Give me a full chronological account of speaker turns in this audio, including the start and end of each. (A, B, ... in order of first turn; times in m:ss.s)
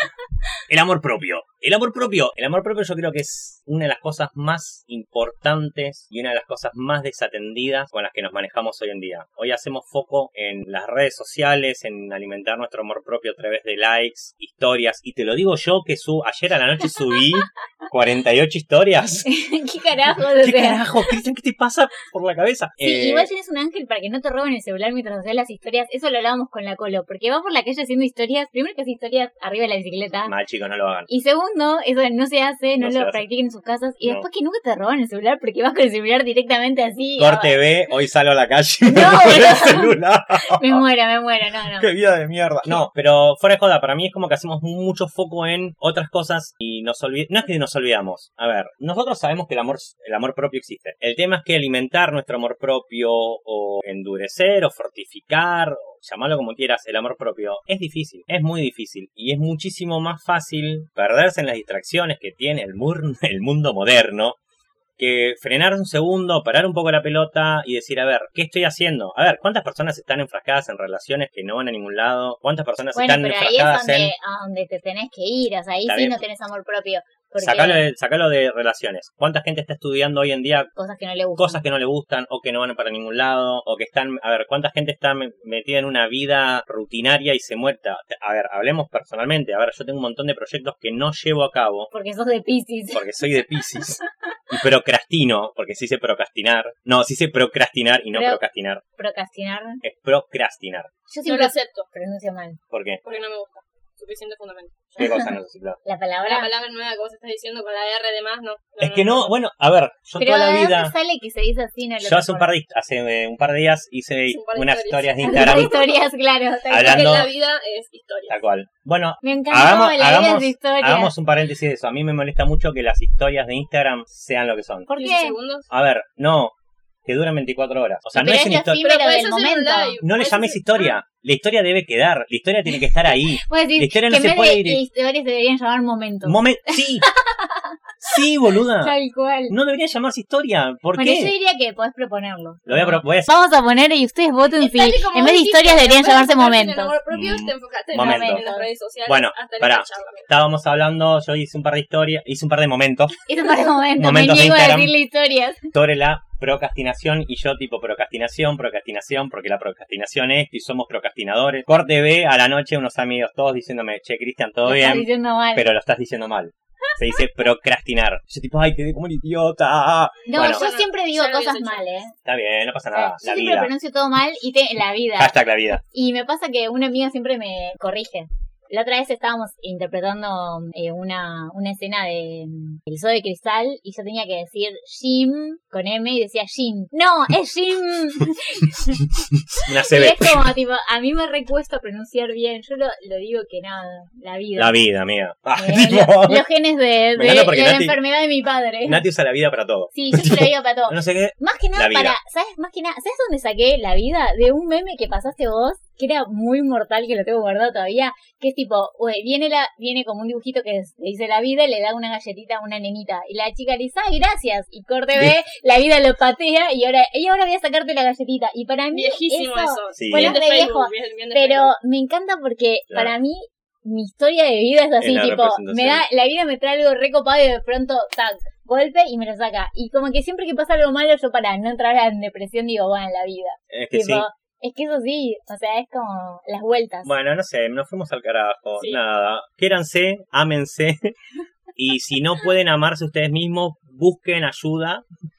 0:00.7-0:19.3 A
0:19.2-0:20.8 B
0:20.1-0:23.3 A
0:22.8-0:30.3 B
0:30.3-0:31.1 A
0:31.1-0:37.6 B
0:32.8-0:33.2 A
0:37.2-0:40.8 A
0:38.9-0:39.9 B
0:40.4-0:41.9 B
0:41.8-1:04.4 A
1:05.0-1:14.1 A
1:12.9-1:17.8 B
1:15.9-1:16.2 A
1:17.4-1:20.7 A
1:20.8-1:21.6 B
1:21.4-1:31.9 A
1:31.9-1:33.0 B
1:32.9-1:38.8 A
1:38.1-1:38.4 B
1:39.0-1:39.8 B
1:39.8-1:40.9 A
1:41.1-1:42.6 B
1:41.2-1:41.9 C
1:42.7-1:43.0 A
1:43.0-1:45.0 C
1:45.0-1:45.8 A
1:45.0-1:45.3 B
1:45.8-1:46.5 B
1:46.3-1:49.3 C
1:48.8-1:50.9 A
1:50.2-1:52.5 B
1:52.0-1:55.8 A
1:54.3-1:56.0 C
1:55.2-1:57.3 B
1:56.7-1:57.3 A
1:56.7-1:58.4 C
1:58.3-2:04.9 A
1:59.2-2:01.1 B
2:04.9-2:05.4 B
2:04.9-2:05.7 C
2:05.7-2:06.5 A
2:07.0-2:08.8 A
2:08.1-2:10.0 B
2:08.8-2:11.0 C
2:10.0-2:14.8 A
2:13.1-2:17.7 B
2:16.2-2:17.1 A
2:18.0-2:19.0 A
2:18.8-2:19.6 B
2:19.5-2:21.3 A
2:20.9-2:27.0 B
2:22.6-2:23.3 A
2:24.6-2:30.3 C
2:27.1-2:28.4 A
2:27.9-2:28.7 B
2:29.1-2:33.2 A
2:33.3-2:35.7 B
2:34.0-2:35.0 A
2:35.7-2:50.6 A
2:44.6-2:45.7 B
2:50.3-2:52.1 B
2:50.4-2:51.9 C
2:52.2-2:53.7 A
2:52.9-3:09.0 B
2:55.2-2:55.8 A
3:09.3-3:10.4 A
3:09.6-3:14.7 B
3:14.6-3:16.4 A
3:15.6-3:19.0 B
3:17.1-3:18.0 A
3:18.8-3:22.2 A
3:19.9-3:57.1 B
3:38.9-3:41.7 C
3:40.0-3:40.4 A
3:45.0-3:46.0 A
3:53.7-3:54.3 A
3:57.0-4:01.1 A
4:01.8-4:05.0 A